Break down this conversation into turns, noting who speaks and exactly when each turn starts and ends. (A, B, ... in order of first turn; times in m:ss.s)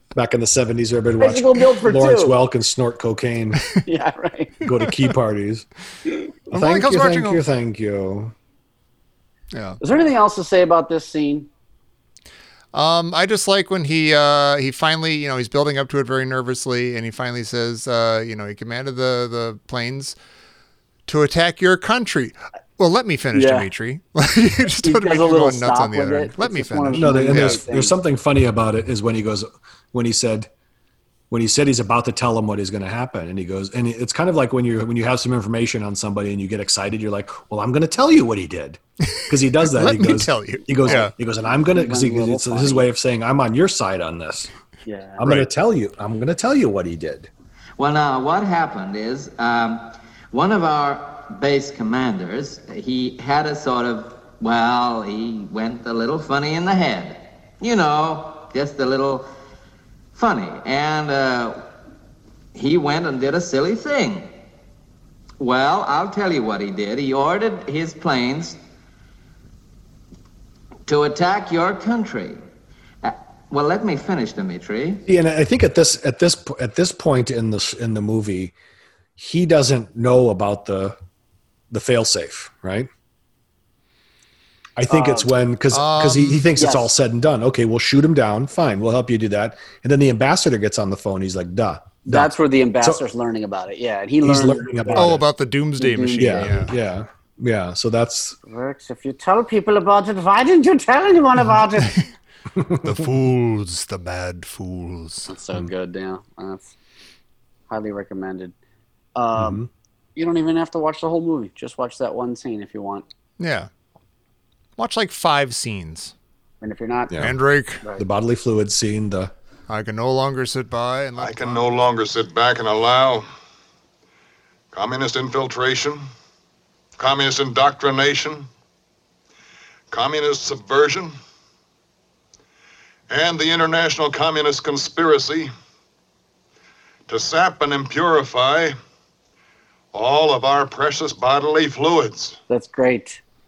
0:00.1-0:03.6 A
0:01.2-0:02.4 B
0:03.8-0:04.6 B
0:04.6-0:05.6 A
0:06.5-0:07.4 C
0:06.5-0:08.3 A
0:09.5-0:09.8 C
0:09.8-0:11.5 B
0:12.7-0:20.2 C
0:21.1-0:27.6 C
0:23.3-0:23.7 B
0:24.8-0:28.0 B
0:26.9-0:30.5 A
0:31.3-0:44.5 A
0:39.1-0:41.1 C
0:40.7-0:42.9 B
0:44.8-0:45.2 B
0:45.2-0:47.3 A
0:45.2-0:45.5 C
0:47.8-0:59.3 D
1:00.1-1:01.6 D
1:02.5-1:04.3 D
1:05.4-1:08.6 D
1:10.8-1:12.4 D
1:13.0-1:15.0 D
1:15.1-1:18.5 A
1:19.2-1:21.0 A
1:21.7-1:22.9 A
1:24.8-1:33.0 A
1:24.9-1:25.3 B
1:25.7-1:26.5 C
1:26.6-1:26.9 B
1:32.0-1:35.2 B
1:34.2-1:35.2 A
1:34.9-1:36.7 C
1:35.8-1:36.7 B
1:36.2-1:38.4 A
1:38.4-1:42.0 B
1:42.6-1:43.1 A
1:42.8-1:45.3 C
1:45.3-1:46.7 B
1:47.7-1:48.5 B
1:49.2-1:49.6 B
1:49.3-1:49.7 A
1:50.2-1:53.0 B
1:53.4-1:53.7 C
1:54.8-1:56.1 C
1:56.6-1:57.1 B
1:57.1-1:57.4 A
1:57.2-1:57.8 C
1:58.0-1:59.3 A
1:59.7-2:01.6 C
2:01.2-2:03.3 E
2:04.7-2:06.0 E
2:07.0-2:08.5 E
2:09.9-2:11.1 E
2:13.1-2:15.5 E
2:17.1-2:18.8 E
2:19.9-2:22.4 E
2:22.5-2:23.2 B